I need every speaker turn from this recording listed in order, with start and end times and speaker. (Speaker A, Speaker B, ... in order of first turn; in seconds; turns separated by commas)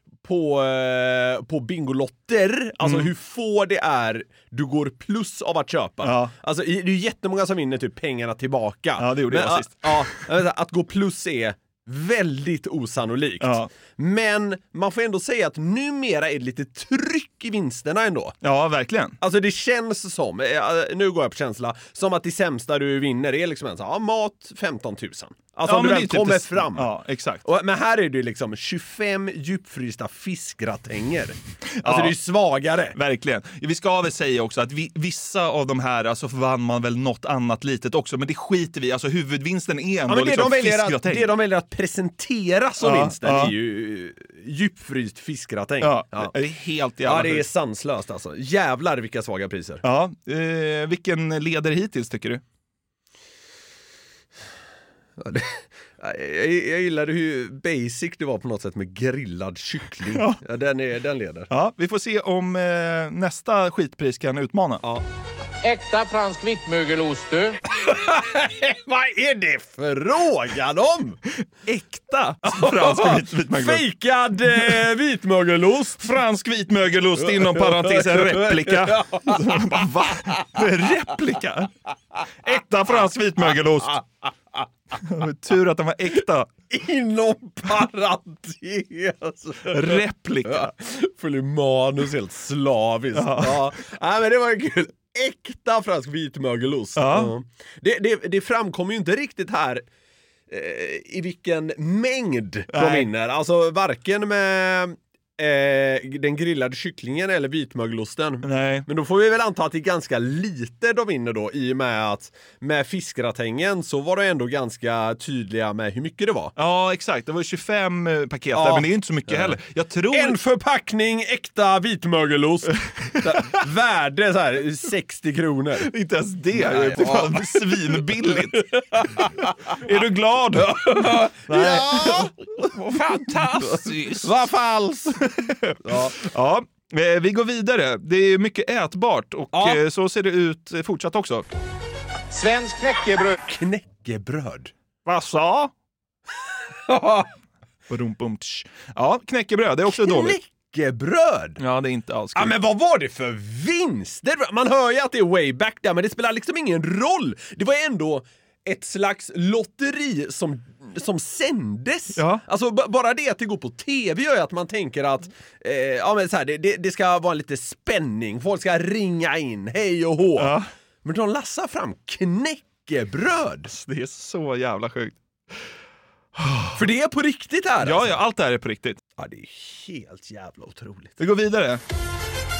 Speaker A: 0.2-18.4, Speaker B: 2.8-3.1, Speaker B: 6.0-6.3, Speaker B: 9.0-10.1, Speaker B: 13.4-13.7, Speaker B: 18.4-19.2, Speaker A: 19.2-26.9, Speaker B: 25.6-27.4, Speaker A: 27.4-33.0, Speaker B: 31.8-32.1, Speaker B: 32.9-41.3, Speaker A: 40.1-46.3, Speaker B: 42.8-43.5, Speaker B: 45.8-47.5, Speaker A: 47.0-49.8, Speaker B: 49.8-52.4, Speaker A: 55.2-61.5, Speaker B: 60.1-60.4, Speaker B: 61.5-64.8, Speaker C: 65.6-67.6, Speaker A: 67.8-71.2, Speaker B: 71.7-73.8, Speaker A: 72.4-76.0, Speaker B: 74.5-74.8, Speaker B: 76.0-81.7, Speaker A: 77.2-79.5, Speaker B: 82.4-84.0, Speaker B: 85.0-86.5, Speaker A: 86.7-99.8, Speaker B: 89.7-90.7, Speaker B: 93.1-93.7, Speaker B: 97.0-97.3, Speaker A: 100.5-116.5, Speaker B: 102.7-103.1, Speaker B: 108.4-108.9, Speaker B: 116.5-120.4, Speaker A: 118.5-119.6, Speaker A: 120.1-125.9, Speaker B: 125.8-128.6, Speaker A: 126.5-129.5, Speaker B: 129.8-134.3, Speaker A: 130.7-135.2, Speaker B: 135.5-141.4, Speaker A: 135.8-136.2, Speaker A: 139.5-139.8, Speaker C: 142.3-143.4, Speaker A: 143.4-144.7, Speaker B: 145.1-145.7, Speaker A: 146.9-147.3, Speaker B: 147.9-150.3, Speaker A: 149.9-151.6, Speaker B: 151.6-152.5, Speaker A: 152.3-173.7, Speaker B: 162.2-162.4, Speaker B: 170.4-170.7, Speaker B: 173.7-175.2, Speaker B: 176.3-176.8, Speaker A: 176.8-178.1, Speaker B: 177.8-179.0, Speaker A: 179.2-181.1, Speaker B: 181.2-181.8